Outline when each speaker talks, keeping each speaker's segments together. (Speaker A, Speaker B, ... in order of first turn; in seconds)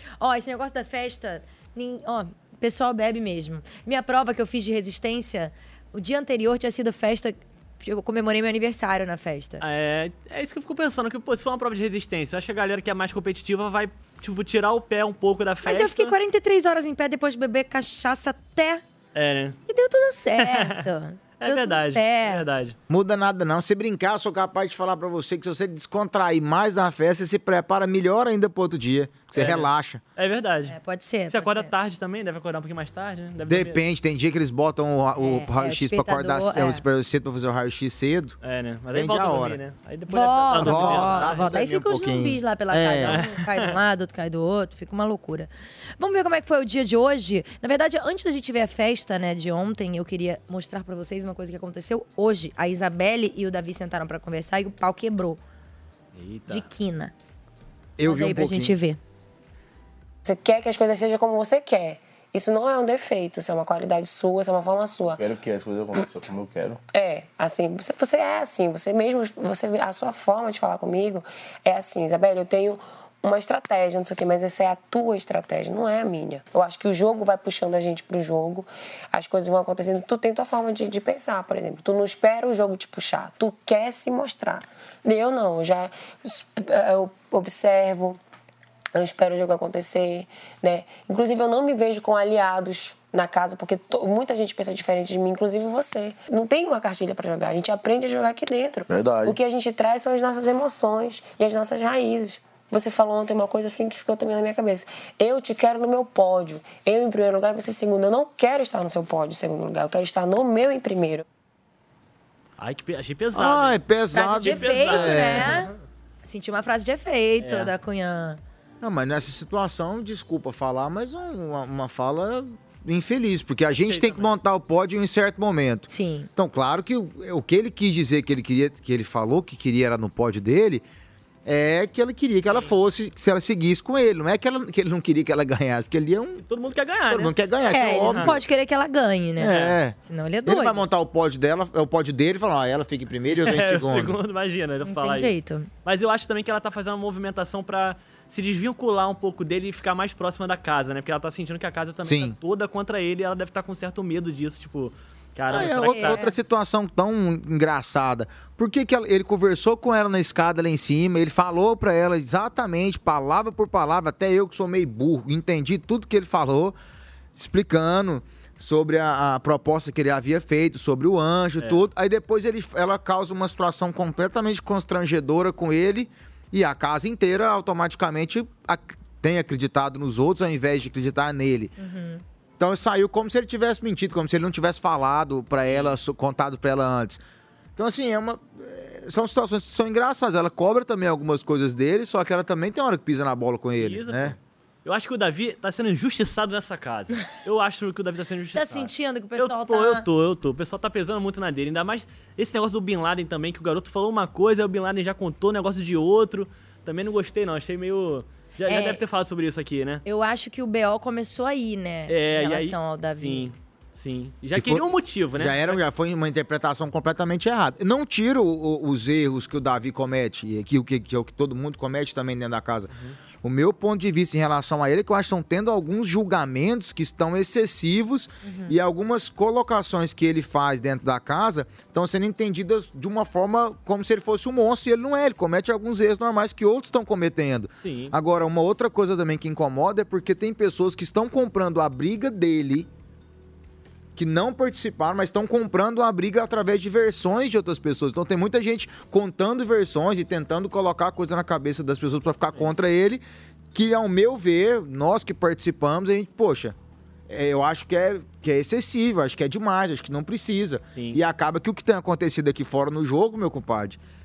Speaker A: 0.2-9.6, 15.6-18.8, 19.7-22.4, 30.7-31.7, 35.2-36.8, 40.1-55.4, 56.5-57.1, 58.0-59.0, 114.1-115.7, 116.2-118.4, 125.9-126.3, 137.7-140.8, 144.8-145.7, 155.6-156.4, 181.8-182.2, 198.6-200.1, 208.7-209.0, 210.1-213.5, 228.4-228.8
Speaker B: 9.6-16.1, 19.1-19.6, 20.4-20.8, 21.4-22.8, 29.3-30.8, 31.3-33.8, 38.4-41.5, 43.1-43.8, 56.1-56.7, 112.6-115.7, 117.4-117.7, 123.7-124.3, 136.4-137.4, 138.1-138.4, 139.5-139.8, 143.3-156.2, 185.7-185.9, 193.8-210.0, 212.1-215.8, 237.8-238.1, 260.9-261.2
Speaker C: 22.9-30.0, 33.5-38.4, 38.9-39.6, 40.5-43.3, 58.0-58.7, 113.3-115.7, 118.8-130.8, 131.4-136.4, 137.1-138.4, 139.4-144.2, 152.1-152.4, 155.5-166.8, 167.3-181.7, 182.6-187.2, 187.8-194.4, 214.6-222.9, 223.4-242.9, 244.2-253.2, 253.7-256.8, 257.3-264.0
Speaker D: 60.2-65.3, 66.9-88.2, 88.9-111.2
Speaker E: 65.2-66.8, 98.9-99.3